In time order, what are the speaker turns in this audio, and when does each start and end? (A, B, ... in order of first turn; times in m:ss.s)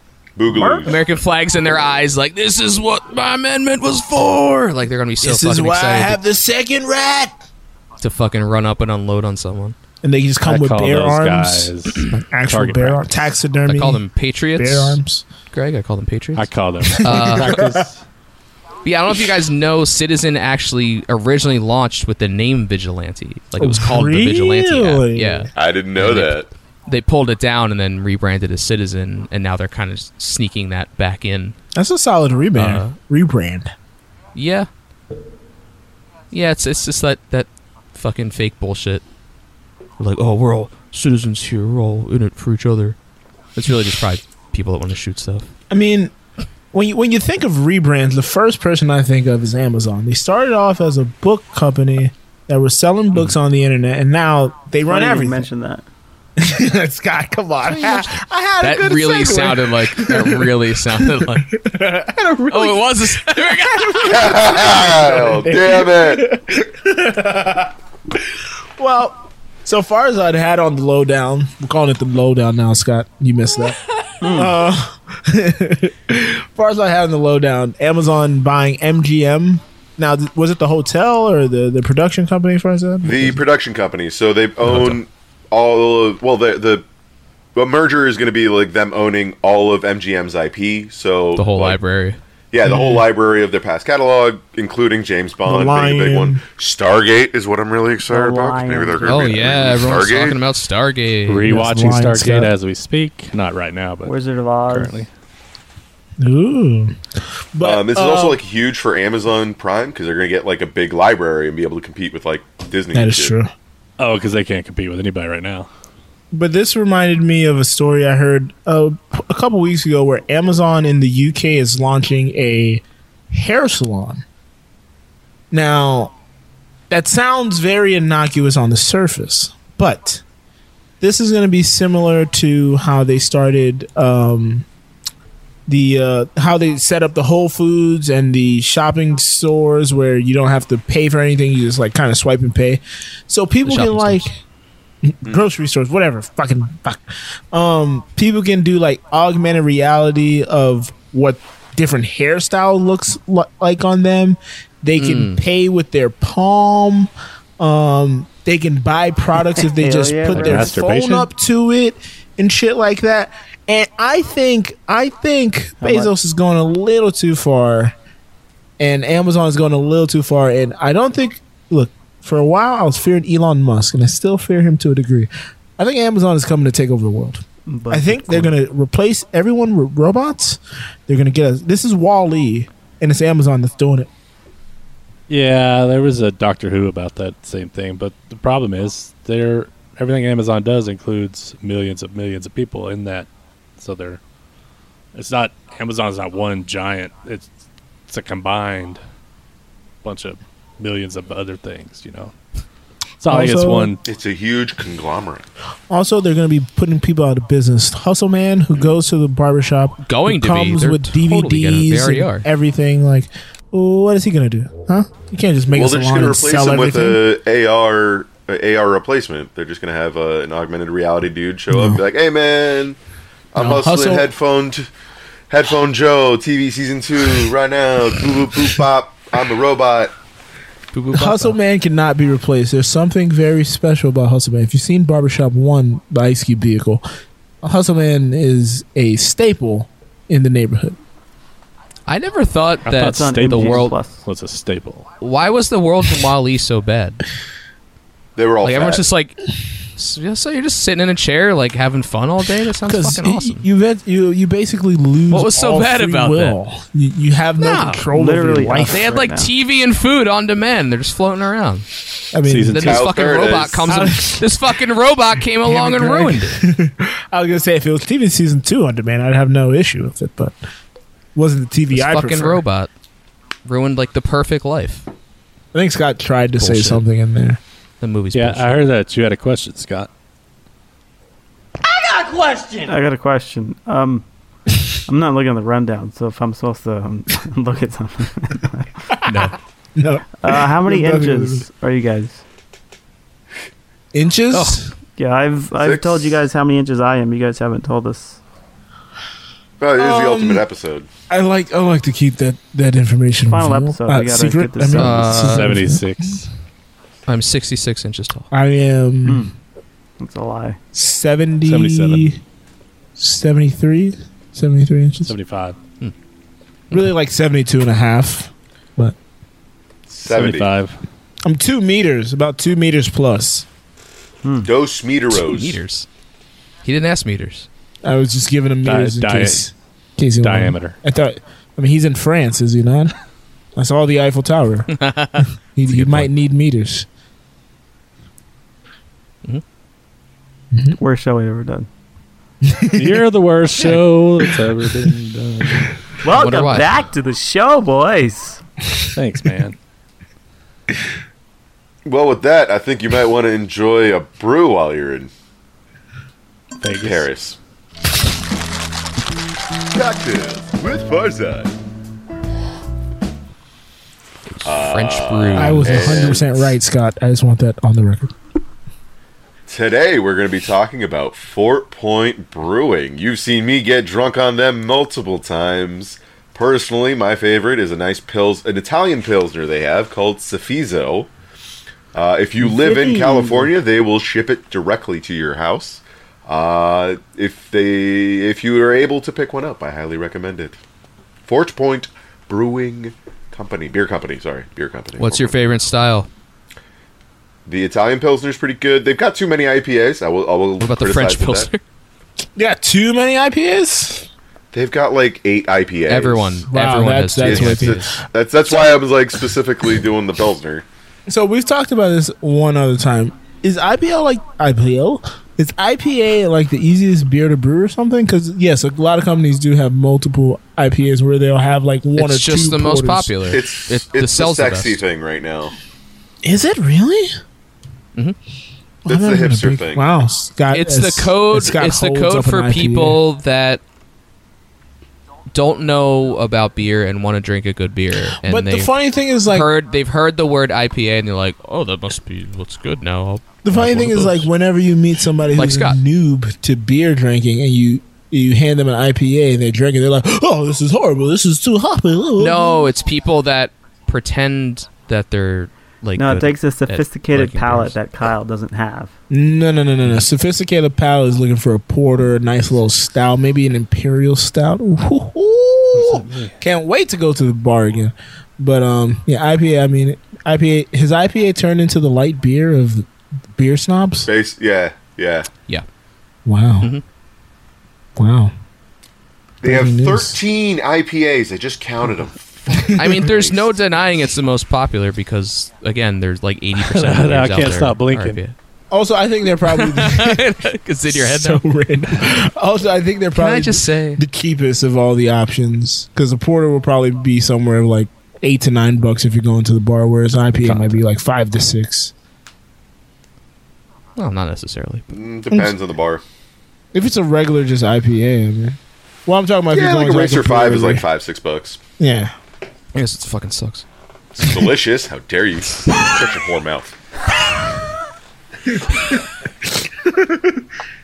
0:00.4-0:01.0 A
0:00.5-0:00.9 B
0:00.8-0:06.2 C
0:05.2-0:07.4 B
0:08.0-0:09.8 C
0:10.0-0:14.0 B
0:10.4-0:13.3 D
0:13.7-0:15.0 C
0:14.6-0:15.2 B
0:15.5-0:16.5 C
0:16.4-0:18.0 D
0:16.9-0:17.8 B
0:17.0-0:17.5 C
0:18.8-0:31.6 C
0:23.6-0:25.5 B
0:25.5-0:26.5 A
0:31.7-0:33.7 B
0:32.6-0:33.0 C
0:34.4-0:34.7 C
0:36.3-0:39.0 C
0:40.0-0:43.0 C
0:43.5-0:45.5 C
0:45.7-0:46.1 B
0:46.7-0:55.5 B
0:54.9-0:55.8 E
0:56.4-1:23.4 B
0:57.6-1:01.5 C
1:02.5-1:04.1 C
1:04.1-1:06.2 A
1:14.2-1:14.5 E
1:23.0-1:26.9 A
1:24.6-1:25.0 C
1:27.5-1:31.8 A
1:31.4-1:32.2 C
1:32.5-1:40.4 A
1:32.6-1:33.0 B
1:35.4-1:36.4 B
1:38.1-1:39.3 E
1:39.0-1:41.5 C
1:41.3-1:44.1 D
1:41.4-1:42.5 B
1:44.0-1:45.0 E
1:44.7-1:45.1 D
1:46.2-1:47.0 B
1:47.5-1:48.4 B
1:47.6-1:53.3 A
1:52.9-1:53.5 B
1:54.0-1:55.7 D
1:56.3-2:04.2 B
2:05.5-2:06.1 B
2:06.9-2:10.2 B
2:11.0-2:14.7 B
2:15.7-2:24.3 B
2:23.6-2:24.2 C
2:25.0-2:47.9 B
2:35.0-2:35.4 C
2:39.6-2:40.8 E
2:40.3-2:41.3 D
2:45.8-2:46.1 E
2:48.8-3:04.1 B
2:57.7-2:58.5 E
3:05.3-3:14.2 D
3:15.2-3:17.5 D
3:18.1-3:19.0 D
3:20.0-3:22.3 D
3:23.2-3:24.0 D
3:23.2-3:23.9 B
3:24.0-3:25.5 A
3:25.9-3:37.2 B
3:30.0-3:32.5 C
3:35.7-3:43.0 A
3:41.7-3:42.0 B
3:43.5-3:44.9 A
3:43.6-3:44.3 B
3:43.7-3:44.1 C
3:45.5-3:50.1 A
3:50.9-3:51.6 C
3:51.1-3:57.0 B
3:57.6-4:01.0 B
4:02.1-4:03.9 C
4:02.8-4:05.0 D
4:03.0-4:04.2 E
4:05.2-4:07.2 C
4:08.4-4:09.0 A
4:08.6-4:09.4 C
4:10.0-4:13.6 C
4:12.8-4:19.1 B
4:15.3-4:16.6 C
4:17.6-4:18.0 C
4:18.1-4:19.5 E
4:18.8-4:21.9 C
4:22.3-4:23.0 B
4:22.4-4:23.0 D
4:22.7-4:26.6 C
4:22.8-4:23.9 A
4:23.9-4:24.5 B
4:25.6-4:30.6 B
4:31.3-4:32.6 B
4:31.9-4:32.9 C
4:33.6-4:35.1 C
4:35.7-4:37.6 B
4:36.6-4:37.0 C
4:38.0-4:38.8 C
4:38.3-4:40.1 D
4:42.6-4:44.2 E
4:45.1-4:48.9 E
4:49.2-4:49.6 C
4:50.0-4:51.6 B
4:50.4-4:52.4 E
4:54.1-4:54.9 B
4:54.5-4:54.8 C
4:55.2-4:58.4 E
4:55.7-4:56.4 A
4:59.8-5:01.1 A
5:00.0-5:00.7 B
5:01.3-5:06.1 B
5:03.5-5:05.5 E
5:05.0-5:05.8 C
5:05.4-5:06.5 D
5:07.3-5:08.5 C
5:08.5-5:09.5 B
5:09.2-5:09.5 E
5:10.2-5:10.8 E
5:10.9-5:12.4 B
5:11.6-5:12.4 D
5:13.2-5:15.3 B
5:15.2-5:15.8 D
5:16.9-5:19.2 B
5:20.1-5:20.7 A
5:20.2-5:21.0 D
5:21.4-5:23.7 B
5:24.4-5:24.7 E
5:24.6-5:25.8 A
5:25.3-5:26.1 C
5:26.8-5:27.7 C
5:28.0-5:33.1 B
5:28.8-5:29.6 D
5:30.4-5:31.0 D
5:33.8-5:37.1 B
5:34.9-5:36.3 C
5:41.0-5:41.9 E
5:42.6-5:43.2 B
5:42.9-5:46.0 D
5:46.2-5:48.6 E
5:46.3-5:47.0 C
5:49.2-5:49.8 D
5:52.0-5:55.3 A
5:56.8-5:57.3 D
5:57.0-5:57.6 A
5:59.9-6:01.7 A
6:04.5-6:06.4 C
6:04.6-6:06.6 A
6:05.5-6:08.3 B
6:09.7-6:21.3 A
6:22.1-6:30.8 A
6:22.6-6:23.7 E
6:31.5-6:35.6 A
6:35.2-6:36.3 C
6:37.7-6:41.7 A
6:40.8-6:41.8 C
6:42.6-6:44.3 B
6:44.7-6:46.6 A
6:46.1-6:48.2 C
6:46.7-6:48.2 B
6:47.4-6:50.8 A
6:51.3-7:03.6 B
7:02.2-7:05.0 C
7:03.5-7:05.8 A
7:06.4-7:07.3 B
7:09.0-7:13.2 B
7:09.0-7:10.0 A
7:10.7-7:13.8 C
7:15.5-7:18.9 C
7:18.4-7:19.7 B
7:19.5-7:24.5 C
7:23.6-7:32.9 B
7:25.5-7:26.0 C
7:32.4-7:38.0 C
7:36.2-7:39.2 E
7:39.3-7:54.3 B
7:46.0-7:46.5 D
7:54.2-7:55.5 A
7:56.4-7:56.9 B
7:58.2-7:58.5 B
7:59.6-8:00.4 B
7:59.6-8:03.7 A
8:03.0-8:08.5 C
8:06.8-8:08.4 D
8:08.9-8:22.1 B
8:09.7-8:11.6 C
8:13.4-8:14.2 C
8:20.6-8:21.0 C
8:24.2-8:25.1 C
8:25.1-8:26.2 A
8:25.5-8:25.8 B
8:26.9-8:31.0 B
8:29.7-8:31.8 A
8:32.0-8:32.3 B
8:33.0-8:33.8 C
8:34.3-8:36.9 A
8:34.4-8:34.7 B
8:38.7-8:40.6 B